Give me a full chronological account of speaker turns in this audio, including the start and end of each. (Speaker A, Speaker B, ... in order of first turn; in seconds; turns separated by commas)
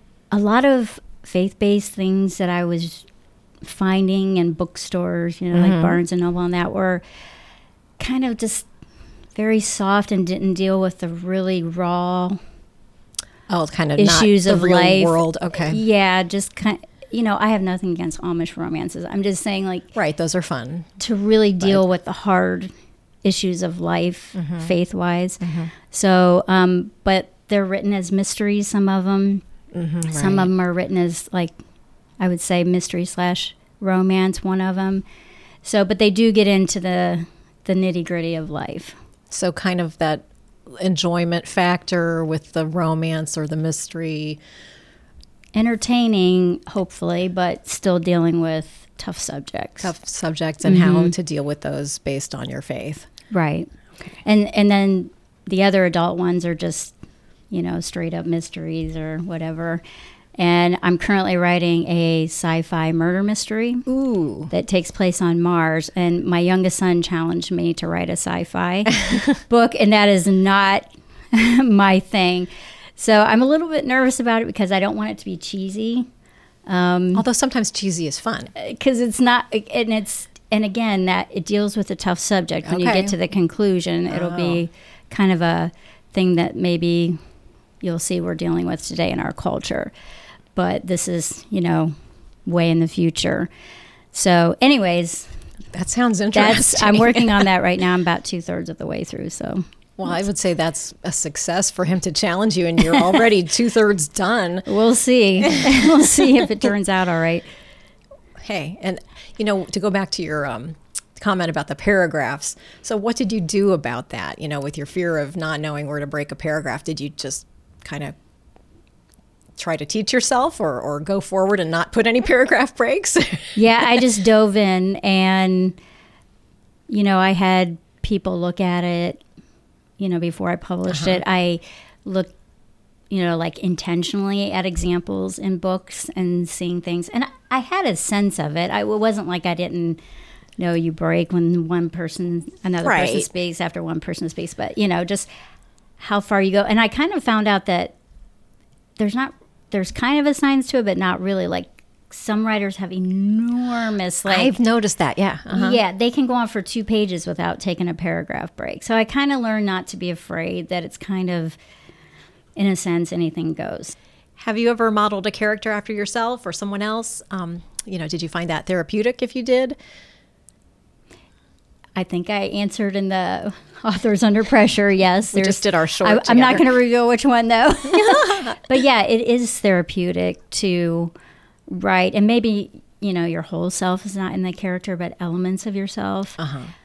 Speaker A: 0.3-3.1, Speaker A: 3.6-7.0, Speaker B: 5.5-6.0, Speaker A: 8.0-8.7, Speaker A: 9.3-12.4, Speaker B: 13.5-15.8, Speaker A: 14.0-19.9, Speaker B: 19.9-20.9, Speaker A: 21.0-22.7, Speaker B: 21.6-21.9, Speaker A: 23.2-29.4, Speaker B: 24.3-24.7, Speaker B: 25.4-25.7, Speaker B: 29.7-30.5, Speaker A: 30.1-31.6, Speaker A: 32.2-35.0, Speaker A: 35.6-39.0, Speaker B: 39.3-44.4, Speaker A: 45.5-49.9, Speaker B: 49.8-53.1, Speaker A: 50.6-51.1, Speaker A: 53.3-57.0, Speaker A: 57.5-59.8, Speaker A: 60.4-63.9, Speaker B: 63.9-64.5, Speaker A: 64.5-76.1, Speaker A: 76.7-77.2, Speaker B: 77.1-78.5, Speaker A: 78.5-87.2, Speaker B: 82.6-83.2, Speaker B: 84.1-84.6, Speaker A: 87.8-89.9, Speaker A: 90.5-91.9, Speaker A: 92.4-93.5, Speaker A: 94.1-95.5, Speaker B: 95.7-97.5, Speaker A: 96.3-99.6, Speaker B: 100.0-104.7, Speaker A: 104.7-107.5, Speaker B: 105.4-105.8, Speaker B: 108.4-118.1, Speaker B: 119.6-124.0, Speaker A: 123.5-125.8, Speaker A: 126.9-129.2, Speaker A: 130.0-132.3, Speaker B: 130.9-131.2, Speaker A: 133.1-140.0, Speaker A: 140.6-145.3, Speaker B: 142.8-143.3, Speaker A: 146.0-147.9, Speaker A: 149.0-154.6, Speaker B: 154.2-155.8, Speaker A: 155.5-161.6, Speaker A: 162.6-163.9, Speaker B: 164.4-169.8, Speaker A: 171.9-181.1, Speaker B: 175.3-176.7, Speaker B: 178.0-178.6, Speaker A: 181.7-186.4, Speaker B: 186.4-186.7